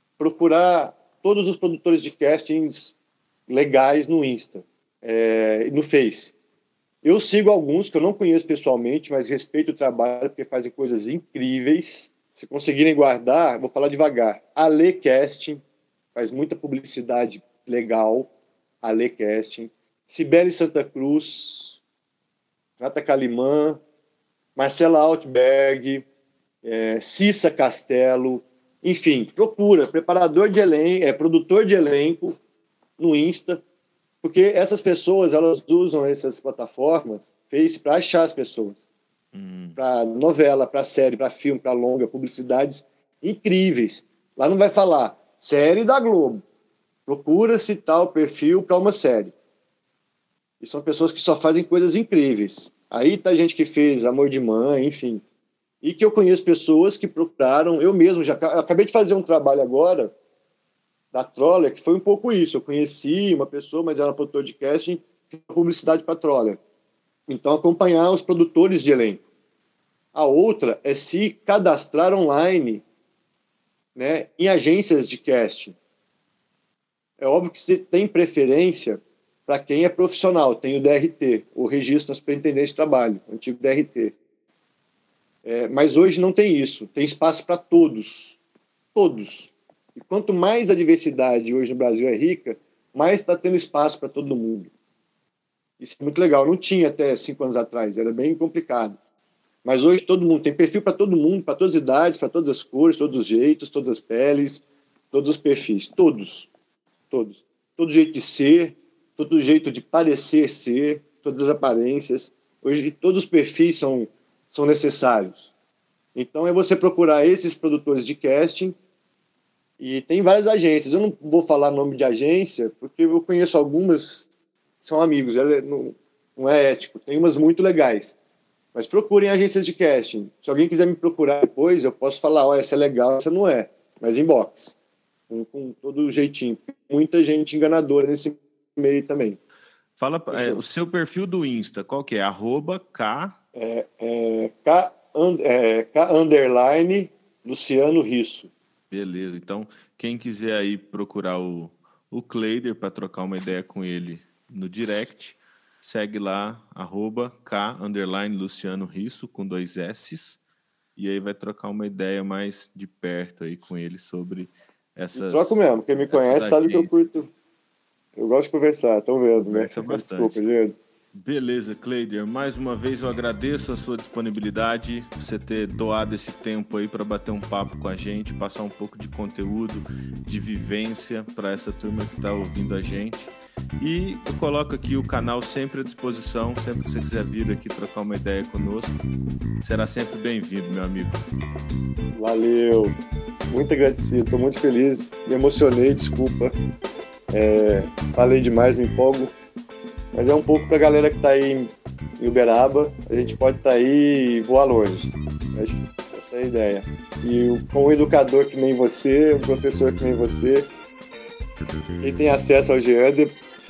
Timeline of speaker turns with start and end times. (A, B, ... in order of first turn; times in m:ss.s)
0:00.2-0:03.0 A
0:03.5-0:06.3 A
0:07.0-0:15.6 A
0:16.2-0:18.3 A
0:18.8-0:21.8 A
0:22.8-0:23.8 A
0:24.6-0:26.1 A
0:26.6-0:32.4 A
0:33.0-0:33.6 A
0:34.2-0:38.8 A
0:39.3-0:39.8 B
0:39.8-0:46.4 A
0:47.1-0:49.3 A
0:50.6-0:55.2 A
0:55.8-1:00.1 A
1:01.1-1:06.6 A
1:07.3-1:09.2 A
1:10.1-1:12.8 A
1:14.0-1:15.8 A
1:17.2-1:24.2 A
1:25.4-1:28.4 A
1:29.0-1:34.7 A
1:35.8-1:39.0 A
1:39.6-1:46.5 A
1:47.1-1:55.5 A
1:56.2-1:58.8 A
1:59.8-2:04.3 A
2:04.8-2:08.2 A
2:08.7-2:14.8 A
2:15.3-2:19.4 A
2:20.0-2:23.4 B
2:20.3-2:20.6 A
2:23.6-2:28.5 A
2:28.9-2:40.4 B
2:41.0-2:46.9 B
2:45.2-2:47.3 A
2:48.2-2:50.8 A
2:49.5-2:50.4 B
2:51.1-3:09.0 B
3:09.6-3:11.2 B
3:12.2-3:13.0 A
3:13.5-3:16.5 A
3:17.3-3:19.3 A
3:20.1-3:30.7 A
3:32.0-3:33.4 A